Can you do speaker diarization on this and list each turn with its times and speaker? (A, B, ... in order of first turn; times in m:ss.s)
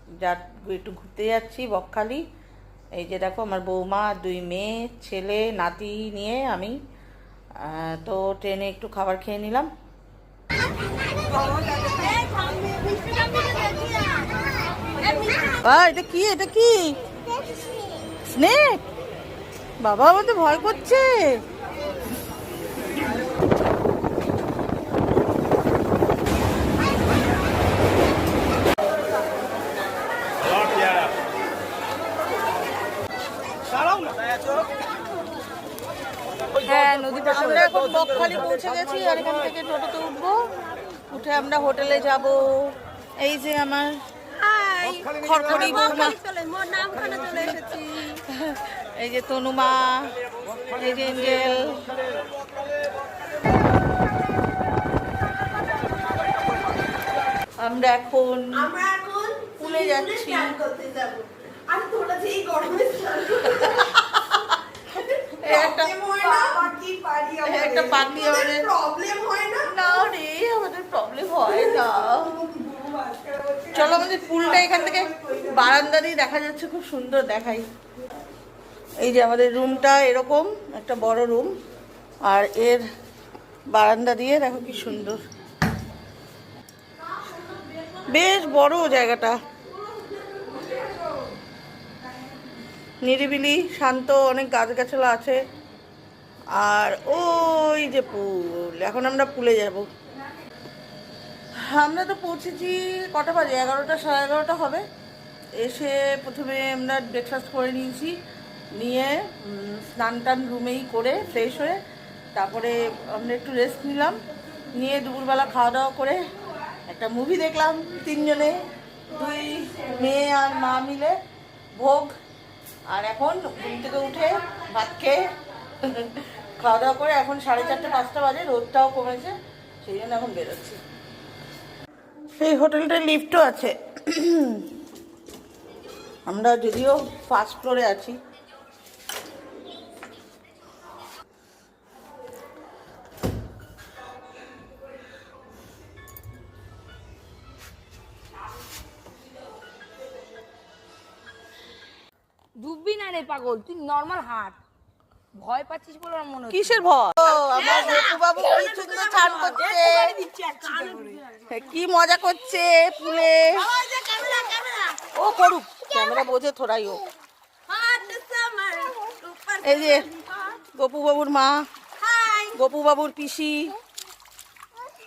0:00.2-0:02.2 A
0:03.0-0:06.8 A
0:07.6-0:09.7 A
0:11.2-0:14.4 B
0:15.0-0:15.6 B
0:15.6-0:17.0 A
0:18.3-0:18.8 A
0:19.8-0:21.4 A
0:36.6-0:40.4 A
0:41.1-0:44.0 A
0:44.3-0:48.2 B
0:45.2-0:46.2 A
0:48.1-0:50.1 A
0:50.8-0:51.8 A
0:57.6-0:58.7 A
0:58.5-1:10.1 B
0:59.6-1:00.5 A
1:03.7-1:04.5 A
1:05.4-1:06.7 A
1:07.4-1:08.7 A
1:09.6-1:12.4 A
1:11.5-1:15.5 B
1:13.7-1:17.6 A
1:19.0-1:21.5 A
1:22.2-1:22.8 A
1:23.7-1:25.2 A
1:28.0-1:29.4 A
1:30.1-1:31.0 B
1:33.0-1:35.4 A
1:36.6-1:39.9 A
1:41.6-1:44.8 A
1:45.6-1:48.1 A
1:48.8-1:51.8 A
1:52.3-1:54.2 A
1:54.7-1:56.2 A
1:56.9-2:01.1 A
2:01.8-2:02.1 A
2:02.9-2:10.8 A
2:12.4-2:14.7 A
2:16.3-2:18.2 A
2:32.6-2:34.6 C
2:35.3-2:36.8 C
2:36.5-2:40.1 A
2:37.3-2:41.5 B
2:40.6-2:40.8 C
2:41.5-2:43.7 A
2:43.5-2:45.1 B
2:45.1-2:47.0 A
2:45.9-2:46.2 B
2:47.7-2:50.6 B
2:49.6-2:50.1 A
2:50.7-2:51.6 A
2:52.0-2:52.6 B
2:52.5-2:53.7 A